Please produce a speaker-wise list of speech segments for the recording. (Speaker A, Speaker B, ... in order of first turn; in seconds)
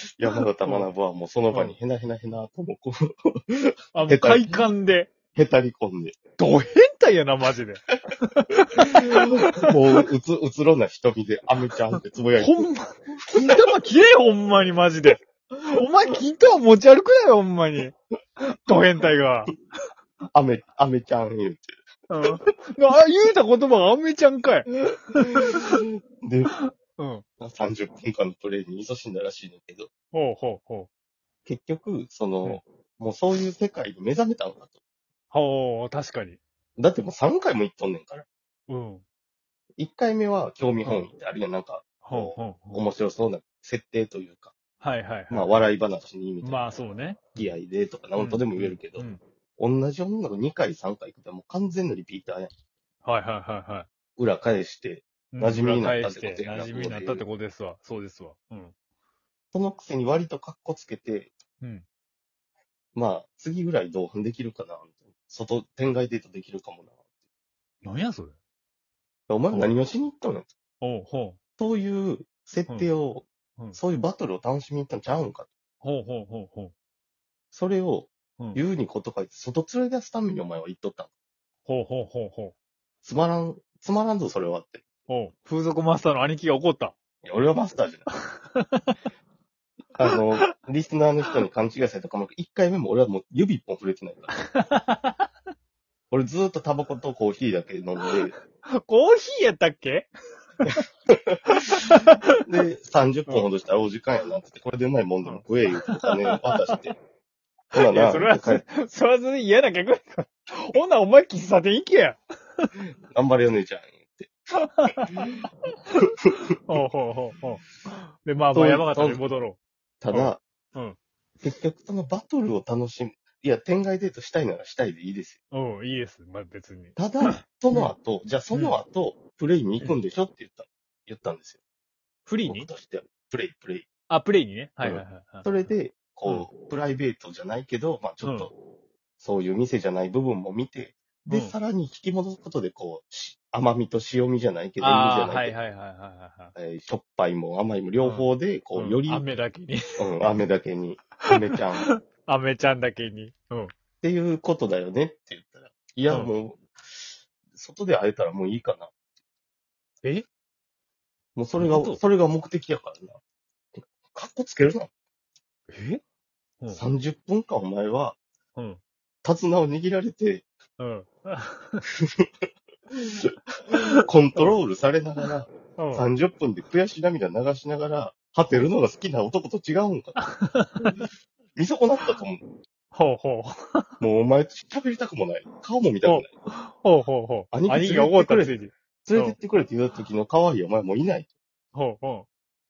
Speaker A: 0.2-4.6, 5.3-6.2, 8.8-12.7, 13.2-13.6, 20.3-21.7, 25.4-26.5, 27.4-29.9, 31.5-34.7, 36.8-38.3, 39.8-44.5, 45.3-46.8, 47.4-52.5, 54.2-57.2, 59.5-61.3, 62.9-66.9, 69.3-70.5, 71.6-75.5, 77.5-81.1, 83.0-84.8, 87.2-88.1, 90.0-94.4, 96.1-98.3, 101.1-101.4, 102.4-107.0, 107.7-108.6, 112.8-114.3, 118.5-119.2, 120.0-120.4, 121.4-125.4, 127.0-131.6, 132.4-133.9, 134.8-138.5, 139.2-145.6, 146.6-149.2, 150.0-151.9, 154.0-156.6, 157.5-158.9, 161.4-163.2, 164.1-164.9, 166.7-168.2, 169.2-170.4, 172.9-180.2, 181.6-182.4, 184.0-186.3, 187.5-191.3
Speaker B: 0.6-0.9, 3.9-5.1, 6.4-10.0, 12.4-19.5, 22.1-25.8, 26.5-27.2, 30.1-30.9, 35.3-36.4, 38.7-39.0, 42.0-42.8, 44.8-45.7, 46.4-47.5, 48.2-49.2, 53.0-53.9, 55.3-58.7, 67.8-68.4, 70.8-71.4, 75.8-76.7, 81.7-82.5, 85.1-87.0, 88.3-89.0, 94.5-95.2, 98.3-100.8, 101.5-102.4, 105.2-106.7, 107.8-112.7, 114.6-115.3, 116.6-119.6, 120.1-121.0, 125.5-127.9, 128.5-128.8, 132.3-132.7, 134.1-135.5, 138.2-138.5, 141.3-141.6, 144.8-146.5, 148.0-150.1, 151.3-153.7, 161.6-162.0, 165.7-166.0, 170.8-171.8, 173.7-174.6, 175.8-176.1, 180.2-181.0, 182.9-184.0, 186.0-189.4, 191.7-192.3